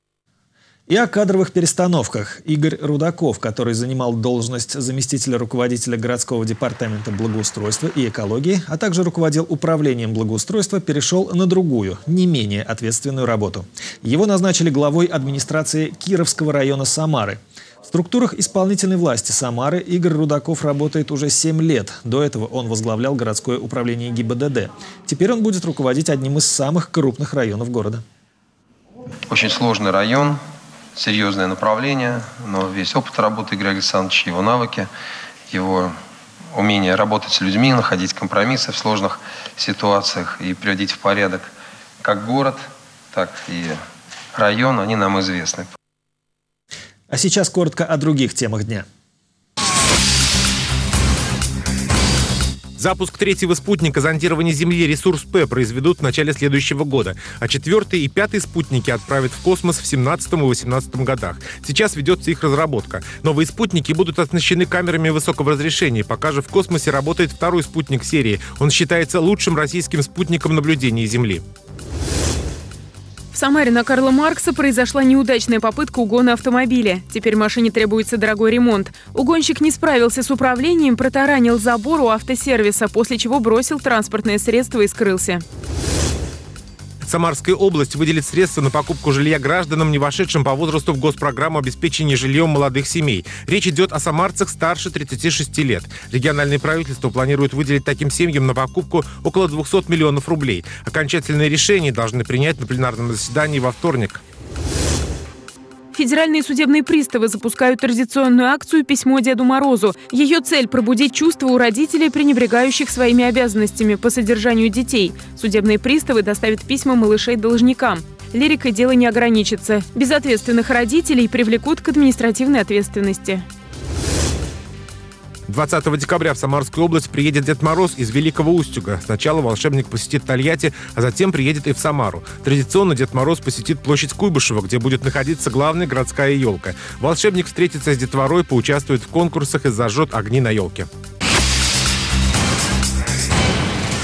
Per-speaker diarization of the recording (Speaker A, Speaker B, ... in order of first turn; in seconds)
Speaker A: 0.9-28.0, 47.1-48.9
Speaker B: 29.3-30.4, 30.9-34.9, 35.5-36.0, 36.5-41.5, 42.0-43.8, 44.3-45.7
Speaker C: 52.8-71.4, 87.0-104.2, 125.5-140.9
Speaker D: 73.3-85.4, 105.9-123.5